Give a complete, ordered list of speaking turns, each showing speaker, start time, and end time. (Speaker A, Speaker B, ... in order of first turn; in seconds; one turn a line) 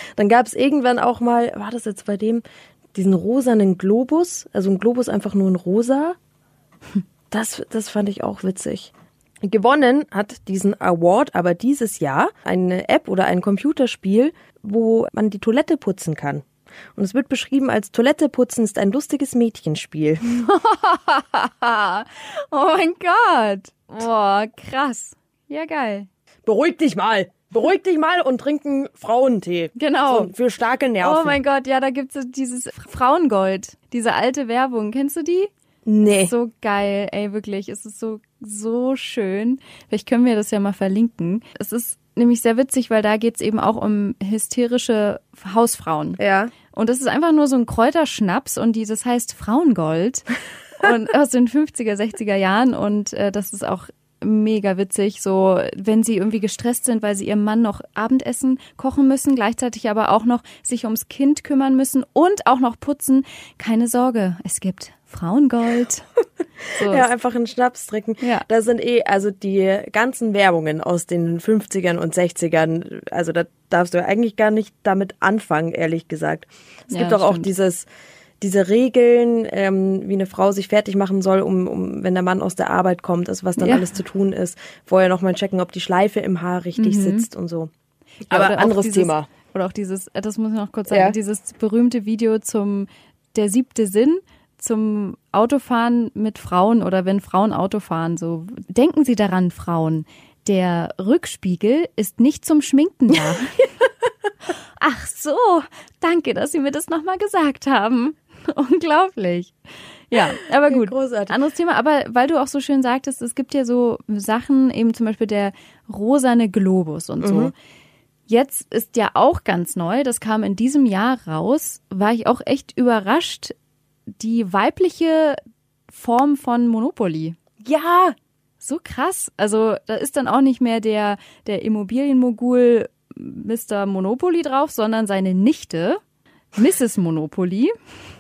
Speaker A: 0.2-6.2
Speaker A: 7.3-8.9
Speaker A: 9.4-20.3
Speaker B: 20.2-26.1
Speaker A: 26.5-31.4
Speaker B: 29.8-30.3
Speaker B: 31.0-35.5
Speaker A: 35.9-36.3
Speaker B: 36.2-66.1
Speaker A: 46.2-46.5
Speaker B: 66.7-67.1
Speaker A: 66.8-77.9
Speaker B: 76.9-77.5
Speaker A: 78.4-87.7
Speaker B: 83.6-83.9
Speaker B: 86.8-87.3
Speaker A: 88.3-89.3
Speaker B: 88.3-103.6
Speaker A: 90.9-91.2
Speaker B: 104.8-109.5
Speaker B: 110.1-117.5
Speaker A: 110.7-111.4
Speaker A: 117.2-117.5
Speaker B: 118.3-123.5
Speaker B: 124.2-127.4
Speaker A: 127.6-128.2
Speaker B: 128.6-136.0
Speaker B: 136.6-137.7